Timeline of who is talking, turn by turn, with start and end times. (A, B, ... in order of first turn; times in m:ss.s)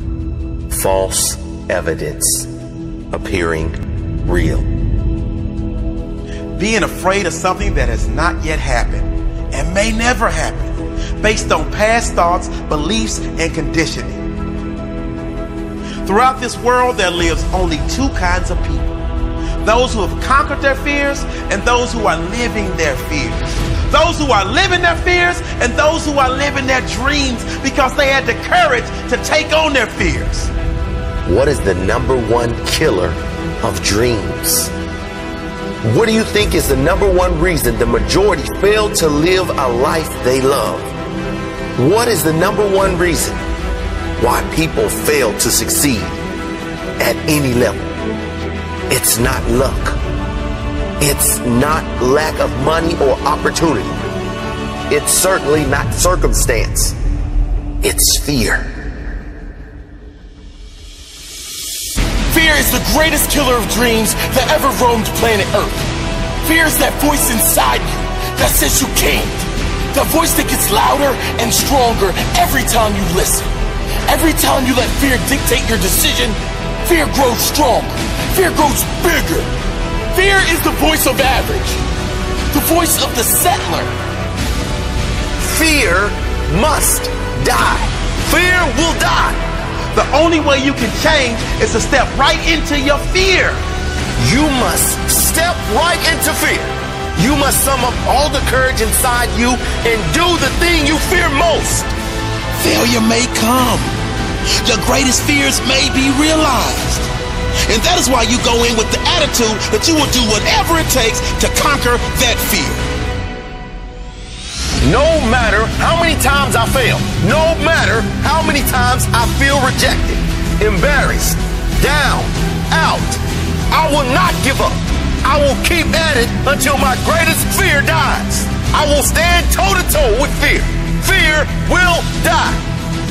0:00.7-0:02.5 A
0:03.1-0:04.6 A
0:06.6-0:14.3 B
0:16.0-0:19.0 B
0:19.6-0:30.5 B
0:31.2-0:34.7 A
0:35.8-0:40.9 A
0:41.8-0:43.4 A
0:44.2-0:46.2 A
0:47.0-0:47.8 A
0:48.9-0:50.0 A
0:51.0-0:54.0 A
0:54.9-0:57.0 A
0:57.8-0:58.7 A
1:02.3-1:05.9 C
1:06.4-1:13.5 C
1:14.0-1:19.5 C
1:20.1-1:21.8 C
1:22.5-1:23.9 C
1:25.4-1:29.4 A
1:29.9-1:33.6 B
1:34.2-1:41.9 A
1:42.6-1:43.9 B
1:44.6-1:47.1 B
1:47.7-1:52.9 B
1:54.8-2:12.6 A